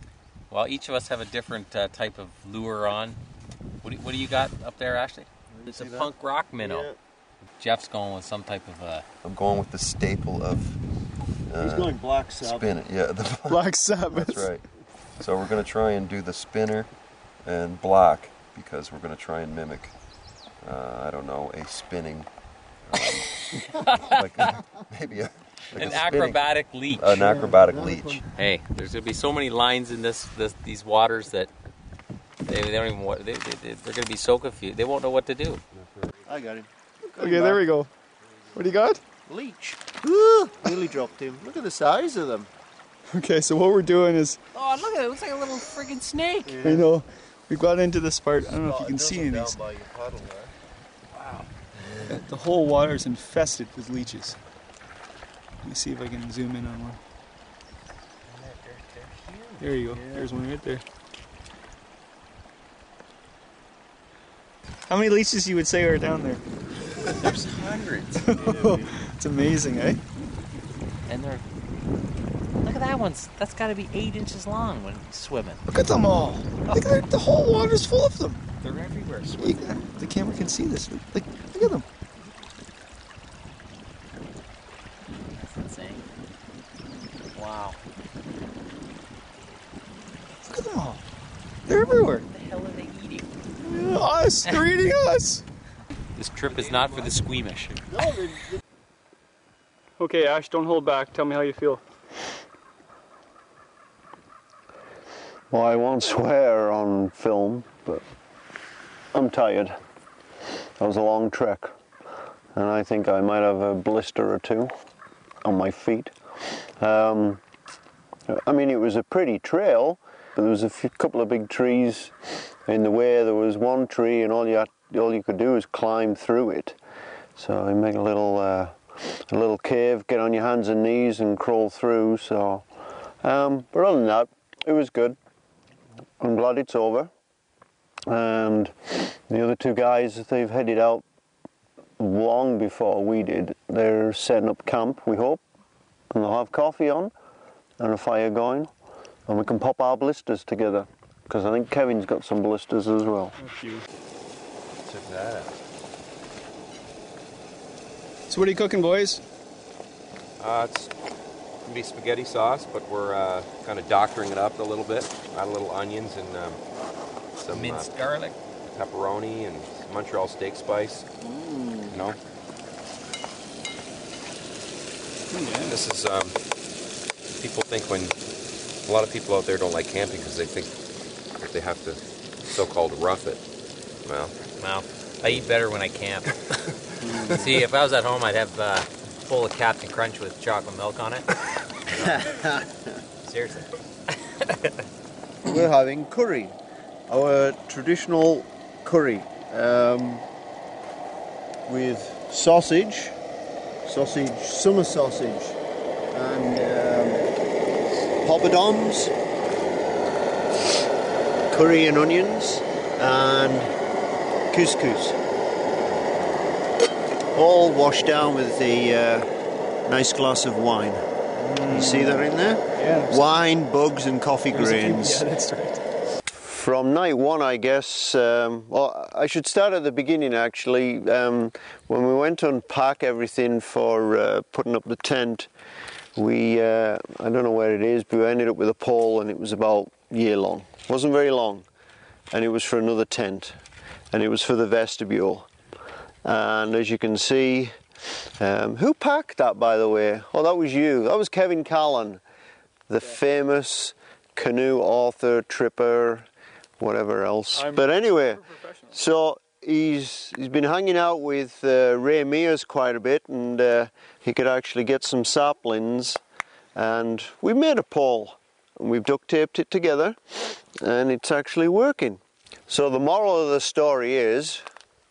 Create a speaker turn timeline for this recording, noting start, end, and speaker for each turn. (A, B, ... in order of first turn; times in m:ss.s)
0:00.5-0:03.2 A
0:03.8-0:06.9 A
0:05.6-0:07.0 B
0:07.6-0:09.0 A
0:09.2-0:10.8 C
0:11.5-0:14.6 C
0:11.6-0:12.8 B
0:13.5-0:14.5 D
0:15.2-0:16.9 C
0:17.4-0:20.0 C
0:20.6-0:22.3 C
0:22.8-0:23.4 C
0:23.5-0:24.5 A
0:24.0-0:28.2 C
0:25.8-0:27.2 A
0:27.2-0:28.2 B
0:28.4-0:31.5 A
0:32.4-0:35.6 A
0:35.8-0:36.1 C
0:36.2-0:37.6 B
0:37.2-0:37.9 D
0:38.6-0:39.0 D
0:39.3-0:42.5 B
0:43.1-0:44.4 D
0:44.5-0:46.6 A
0:46.4-0:46.9 B
0:46.6-0:49.6 D
0:48.4-0:50.5 B
0:51.2-0:51.5 A
0:52.1-0:54.4 D
0:55.6-0:57.0 D
0:58.3-1:00.3 A
0:59.6-1:00.8 D
1:04.9-1:06.4 D
1:07.1-1:08.3 A
1:08.2-1:10.0 D
1:08.4-1:08.9 B
1:11.1-1:11.4 A
1:12.6-1:15.6 A
1:15.7-1:18.4 D
1:16.6-1:16.9 A
1:18.6-1:19.8 A
1:19.4-1:21.8 D
1:25.3-1:26.0 A
1:27.3-1:27.8 A
1:30.4-1:31.0 D
1:31.7-1:32.3 D
1:31.8-1:33.3 A
1:33.6-1:35.4 D
1:36.2-1:37.9 A
1:36.5-1:37.1 B
1:37.9-1:38.6 B
1:40.0-1:41.8 D
1:45.5-1:48.0 B
1:49.1-1:49.7 B
1:50.8-1:51.7 B
1:52.6-1:54.7 B
1:55.4-1:56.1 B
1:56.8-1:57.4 B
1:58.3-2:02.2 B
2:02.7-2:06.8 B
2:07.4-2:12.6 B
2:13.2-2:15.2 B
2:16.2-2:17.1 B
2:18.1-2:21.0 B
2:22.0-2:25.4 B
2:26.1-2:27.1 B
2:27.8-2:28.7 B
2:29.3-2:33.4 B
2:33.4-2:33.8 D
2:34.8-2:35.6 C
2:38.3-2:39.2 D
2:40.4-2:40.9 E
2:41.6-2:46.6 E
2:47.4-2:47.9 E
2:47.5-2:48.4 A
2:48.7-2:51.1 E
2:51.9-2:52.2 E
2:55.3-2:55.8 D
2:55.5-2:56.4 E
2:57.4-2:58.2 E
2:58.8-3:00.7 E
3:01.4-3:03.4 E
3:04.0-3:04.3 E
3:04.6-3:06.3 A
3:07.0-3:07.5 B
3:07.3-3:11.3 A
3:11.9-3:12.8 B
3:13.2-3:13.7 A
3:15.5-3:16.6 B
3:17.1-3:20.2 B
3:21.7-3:23.2 B
3:23.9-3:25.6 B
3:26.1-3:27.3 B
3:28.2-3:29.1 B
3:31.5-3:33.7 B
3:34.5-3:35.2 B
3:35.8-3:36.5 C
3:37.3-3:39.3 B
3:39.9-3:41.0 B
3:41.4-3:43.3 D
3:41.7-3:45.3 B
3:44.5-3:45.8 D
3:46.3-3:55.5 B
3:56.2-4:01.7 B
4:02.3-4:03.6 B
4:04.1-4:05.5 B
4:06.2-4:07.7 B
4:08.4-4:12.2 B
4:12.9-4:16.3 B
4:16.8-4:26.2 B
4:17.6-4:17.9 D
4:18.5-4:18.8 D
4:26.8-4:30.2 B
4:30.8-4:34.6 B